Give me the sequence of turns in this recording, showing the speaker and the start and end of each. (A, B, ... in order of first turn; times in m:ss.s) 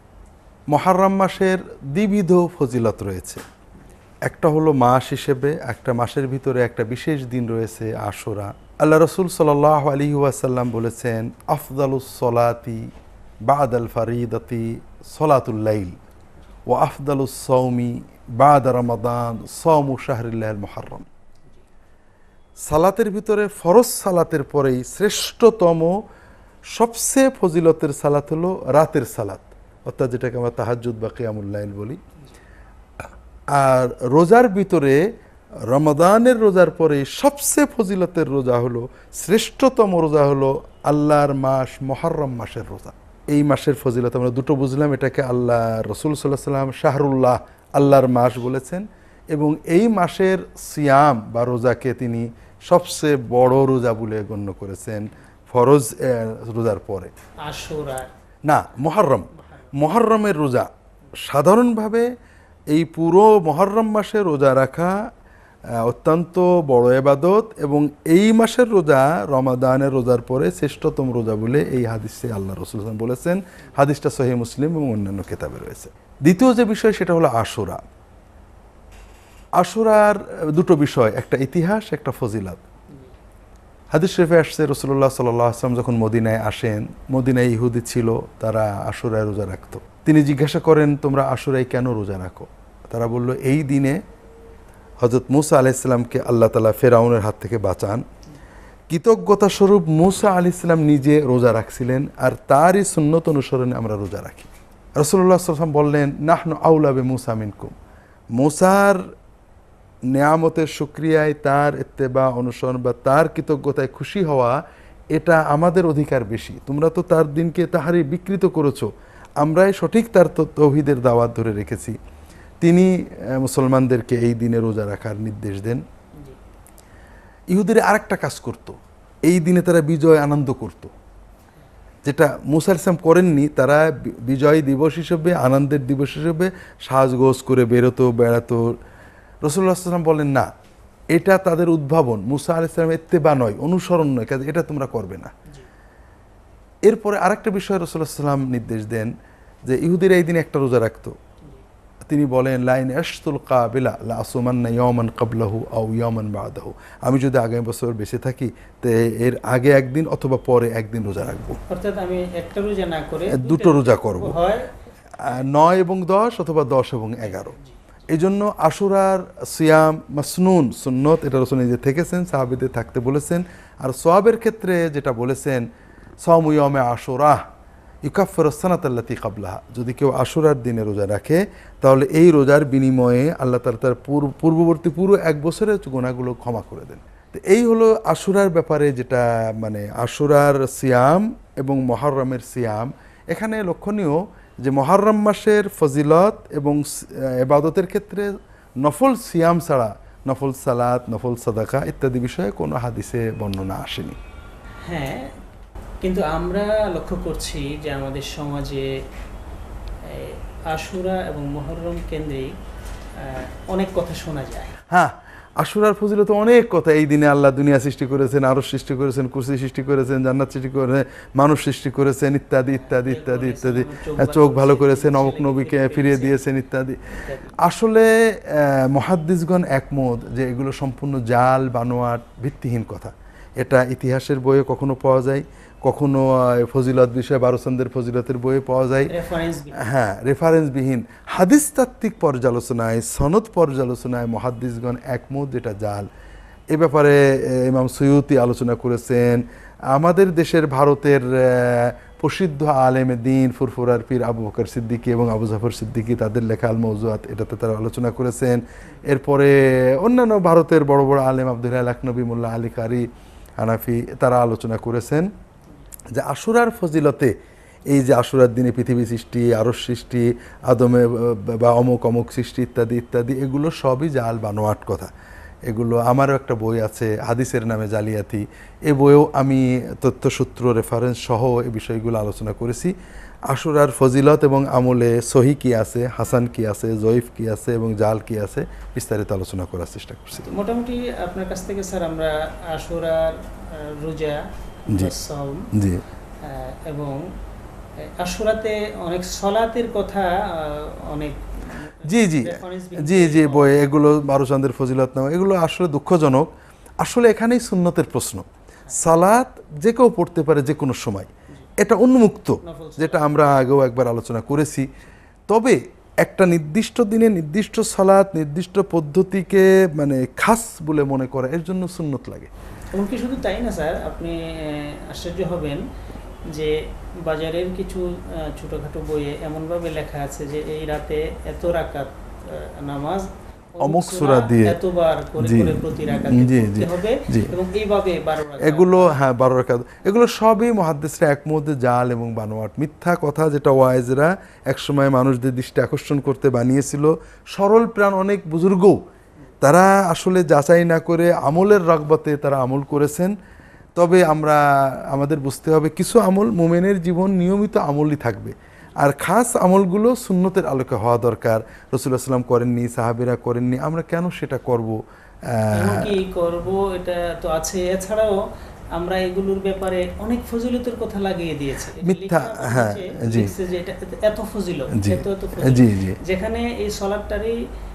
0:00.7-0:03.4 A
0:04.3-0:12.9 A
0:13.5-0:16.0 A
0:16.7-0:21.1 A
0:22.7-0:26.0 A
0:26.8-0:32.0 A
0:33.5-0:35.1 A
0:35.7-0:57.1 A
0:48.0-0:48.3 B
0:57.4-0:58.1 B
0:58.5-1:00.7 A
0:59.3-0:59.8 B
1:01.2-1:02.1 A
1:02.7-1:05.0 A
1:05.8-1:17.8 A
1:19.6-1:22.6 A
1:23.9-1:34.0 A
1:35.0-1:38.0 A
1:38.9-1:47.7 A
1:48.4-1:49.0 A
1:50.1-1:54.6 A
1:55.1-2:02.0 A
2:02.6-2:05.8 A
2:07.5-2:10.9 A
2:12.1-2:18.8 A
2:19.4-2:20.5 A
2:21.1-2:25.3 A
2:26.9-2:29.1 A
2:29.7-2:31.2 A
2:32.0-2:41.6 A
2:41.7-2:44.7 B
2:43.3-2:44.4 A
2:45.2-2:47.6 A
2:45.3-2:45.5 B
2:47.2-2:47.8 B
2:48.1-2:55.7 A
2:56.2-2:57.4 A
2:58.1-3:18.3 A
3:18.8-3:24.2 A
3:24.9-3:25.4 B
3:26.0-3:29.0 B
3:30.0-3:32.5 B
3:33.2-3:34.8 B
3:34.9-3:59.1 A
3:42.7-3:46.4 B
3:47.2-3:47.6 B
3:59.1-3:59.8 B
3:59.8-4:06.1 A
4:06.7-4:23.1 A
4:23.6-4:25.3 A
4:26.1-4:27.3 A
4:27.9-4:35.1 A
4:35.7-4:42.9 A
4:43.5-4:50.5 A
4:50.4-4:55.7 B
4:55.7-4:56.0 A
4:56.4-4:57.2 B
4:58.2-5:03.8 B
5:02.0-5:06.5 A
5:07.0-5:14.9 A
5:12.6-5:13.4 B
5:15.5-5:22.5 A
5:22.9-5:25.8 B
5:26.5-5:39.2 B
5:33.8-5:34.8 A
5:35.4-5:37.5 A
5:38.6-5:49.0 A
5:49.6-5:53.3 A
5:54.0-6:06.1 A
6:05.7-6:08.4 B
6:09.0-6:17.6 B
6:12.0-6:13.5 A
6:14.9-6:16.2 A